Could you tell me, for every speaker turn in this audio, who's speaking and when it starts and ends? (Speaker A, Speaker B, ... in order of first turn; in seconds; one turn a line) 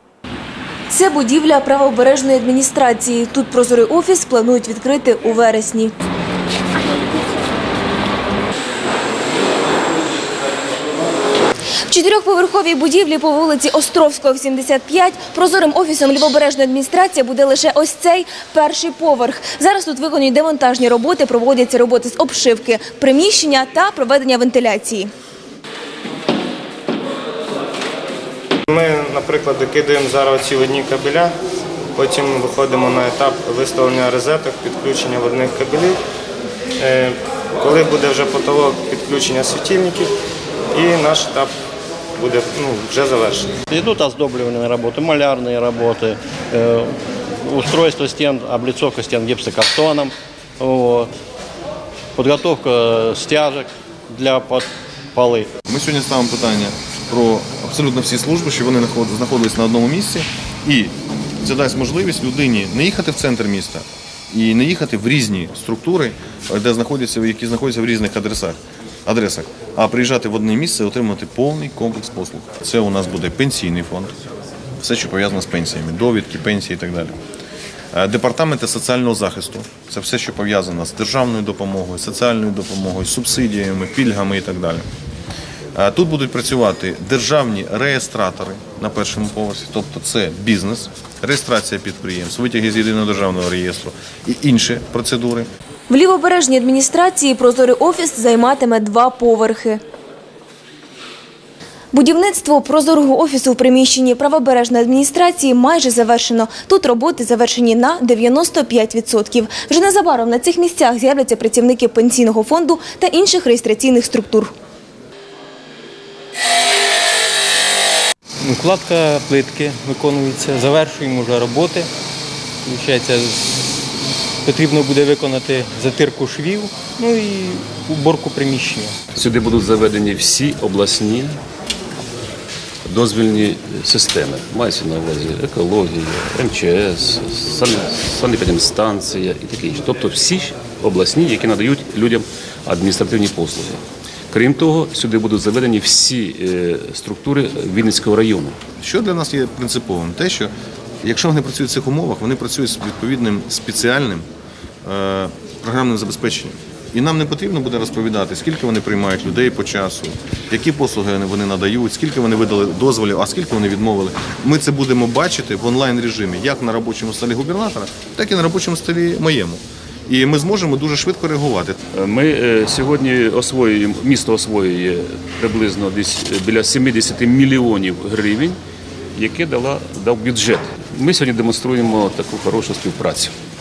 Speaker A: 0.9-5.9
Speaker A: 11.9-25.1
Speaker B: 28.7-31.3
Speaker B: 32.0-35.9
Speaker B: 36.8-40.1
Speaker B: 40.7-41.5
Speaker B: 42.2-43.5
Speaker C: 43.7-51.1
Speaker C: 52.1-55.5
Speaker D: 55.7-74.1
Speaker D: 74.8-77.1
Speaker D: 77.9-84.8
Speaker D: 85.7-95.5
Speaker A: 95.9-99.8
Speaker A: 101.9-114.5
Speaker E: 118.4-121.9
Speaker E: 122.6-123.8
Speaker E: 124.4-128.9
Speaker F: 129.1-131.4
Speaker F: 132.8-148.6
Speaker D: 148.8-150.5
Speaker D: 151.0-154.2
Speaker D: 154.8-171.8
Speaker F: 171.9-178.6
Speaker F: 179.1-183.3